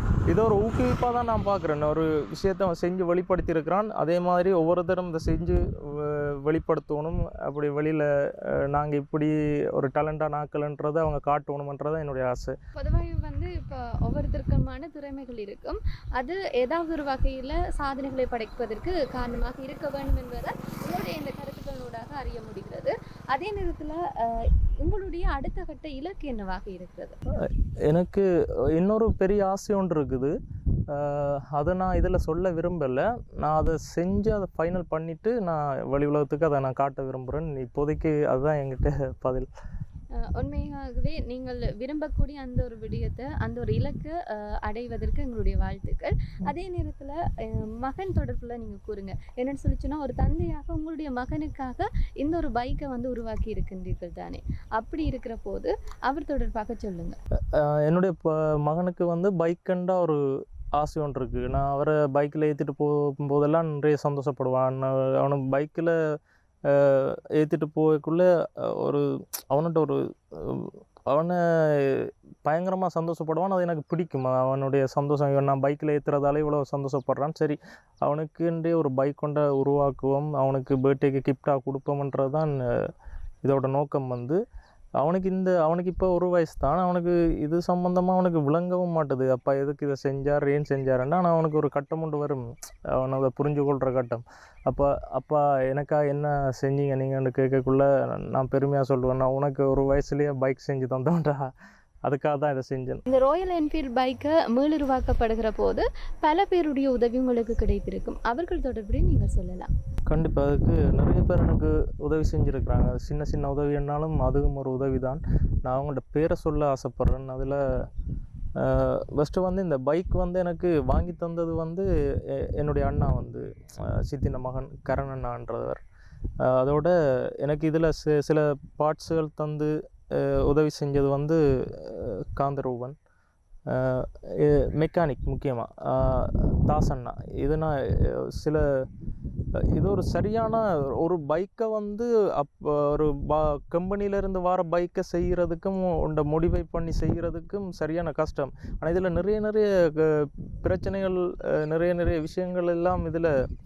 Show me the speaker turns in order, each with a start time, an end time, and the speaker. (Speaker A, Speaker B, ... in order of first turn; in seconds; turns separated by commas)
Speaker A: 0.3-12.6, Speaker B: 12.8-27.2, Speaker A: 27.4-30.3, Speaker A: 30.9-39.5, Speaker B: 40.2-57.2, Speaker A: 57.5-60.2, Speaker A: 60.8-66.0, Speaker A: 66.7-82.9, Speaker A: 83.4-84.4, Speaker A: 85.0-101.4, Speaker A: 102.0-103.0, Speaker B: 103.1-109.7, Speaker A: 110.1-117.6, Speaker A: 118.6-125.8, Speaker A: 126.4-132.9, Speaker A: 133.7-138.6, Speaker A: 139.7-153.3